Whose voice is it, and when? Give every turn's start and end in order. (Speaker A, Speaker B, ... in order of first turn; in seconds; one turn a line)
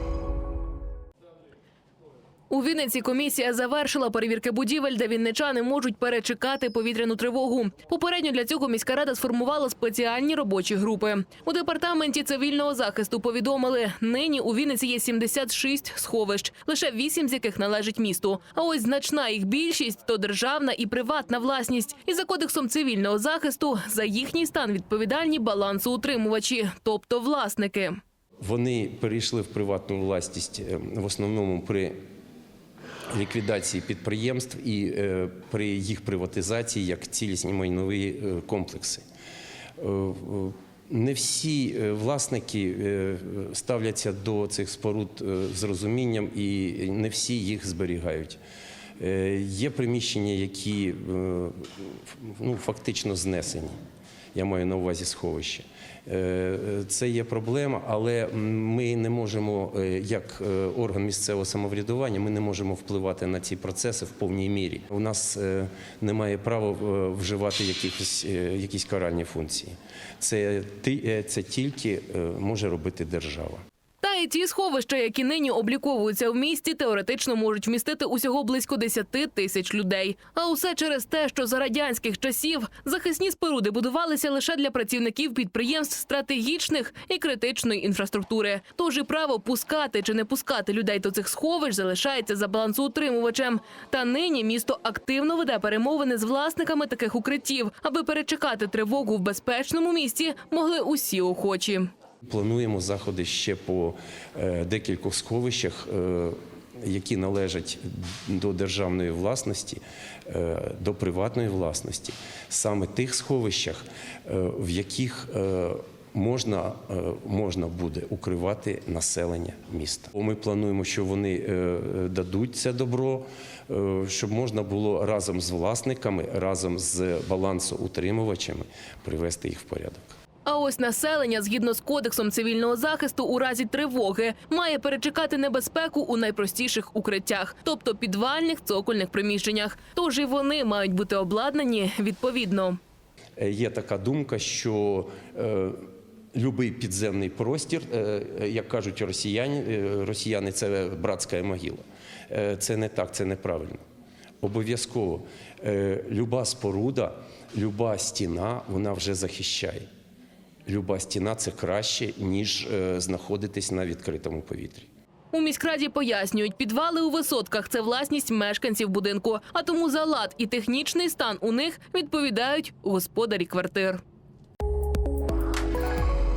Speaker A: 2.5-28.0
Speaker B: 28.4-32.0
Speaker B: 33.1-39.0
Speaker B: 39.8-48.4
Speaker B: 49.0-53.8
Speaker B: 54.4-73.6
Speaker A: 74.0-101.9
Speaker B: 102.3-130.1
Speaker A: 130.5-142.8
Speaker B: 143.4-153.8
Speaker B: 154.4-159.9
Speaker B: 160.7-164.9
Speaker A: 165.3-174.0